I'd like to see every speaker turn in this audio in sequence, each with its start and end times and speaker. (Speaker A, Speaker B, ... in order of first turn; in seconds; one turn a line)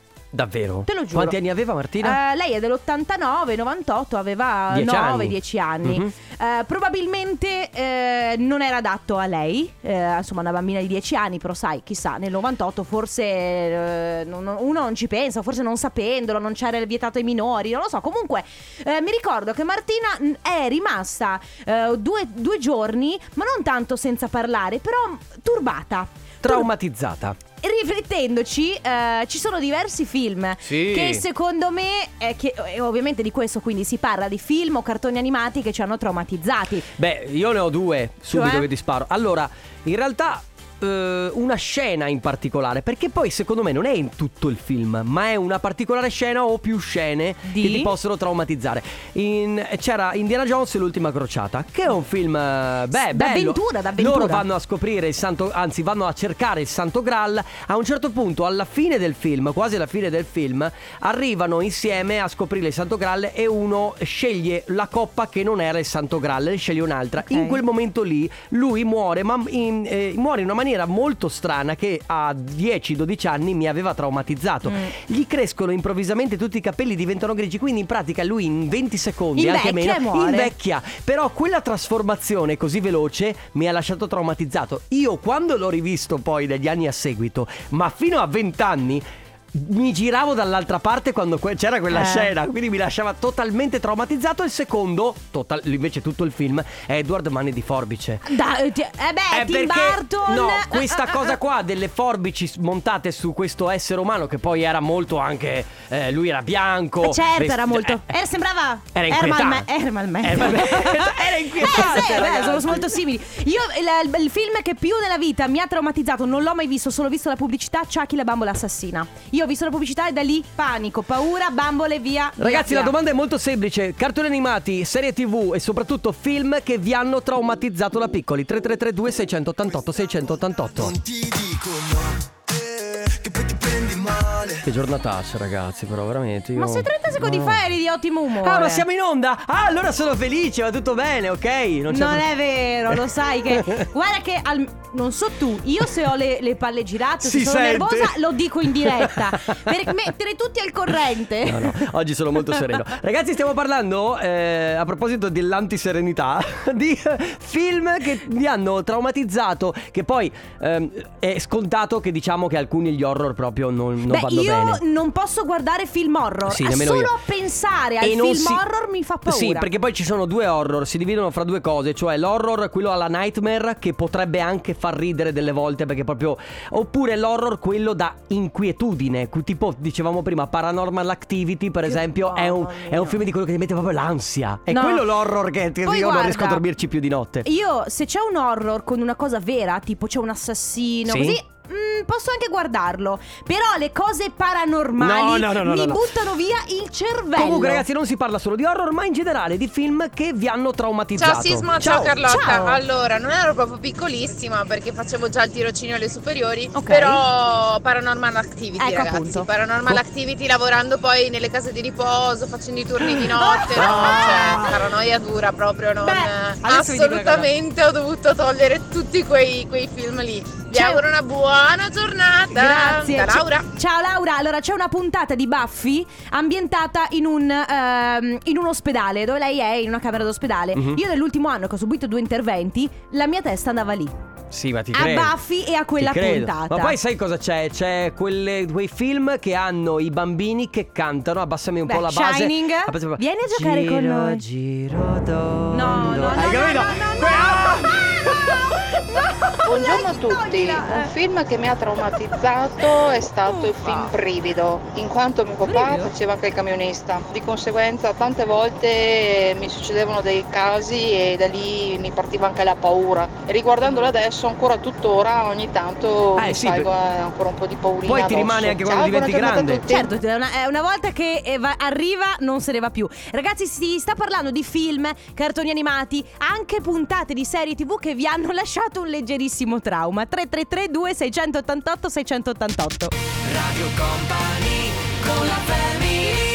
Speaker A: 0.3-2.2
Speaker B: 0.9-1.4
Speaker B: 2.0-26.7
Speaker A: 4.7-6.1
Speaker A: 26.4-27.4
Speaker B: 27.6-36.9
Speaker A: 30.6-31.2
Speaker A: 37.0-98.3
Speaker B: 38.3-38.7
Speaker B: 47.4-47.9
Speaker B: 53.0-54.4
Speaker B: 67.2-67.6
Speaker B: 79.4-80.5
Speaker B: 91.9-92.3
Speaker B: 98.2-101.3
Speaker A: 99.3-108.1
Speaker B: 107.0-122.9
Speaker A: 108.9-109.7
Speaker A: 110.2-113.0
Speaker A: 122.4-131.0
Speaker C: 130.8-134.6
Speaker A: 134.6-137.6
Speaker B: 136.6-138.8
Speaker A: 138.4-142.2
Speaker B: 141.9-151.8
Speaker A: 142.9-143.9
Speaker A: 147.2-148.2
Speaker A: 148.7-150.0
Speaker A: 151.4-164.8
Speaker B: 164.1-169.7
Speaker A: 166.5-167.1
Speaker A: 168.0-168.6
Speaker A: 169.2-187.5
Speaker B: 181.9-183.2
Speaker B: 184.7-185.1
Speaker B: 185.8-186.6
Speaker B: 187.4-197.8
Speaker A: 191.1-191.4
Speaker A: 195.0-196.0
Speaker A: 197.4-202.2
Speaker D: 201.2-223.7
Speaker B: 202.2-202.8
Speaker B: 206.7-207.2
Speaker B: 208.8-209.5
Speaker B: 213.3-214.9
Speaker A: 213.8-214.3
Speaker B: 216.0-217.5
Speaker B: 220.7-221.0
Speaker B: 222.5-234.1
Speaker A: 230.7-231.0
Speaker A: 234.5-235.3
Speaker B: 234.9-237.0
Speaker A: 236.0-248.5
Speaker B: 241.8-244.4
Speaker B: 245.7-251.1
Speaker E: 249.6-270.1
Speaker B: 253.4-254.1
Speaker B: 255.7-256.1
Speaker A: 266.4-266.9
Speaker A: 268.0-269.9
Speaker B: 269.9-283.1
Speaker A: 283.5-286.4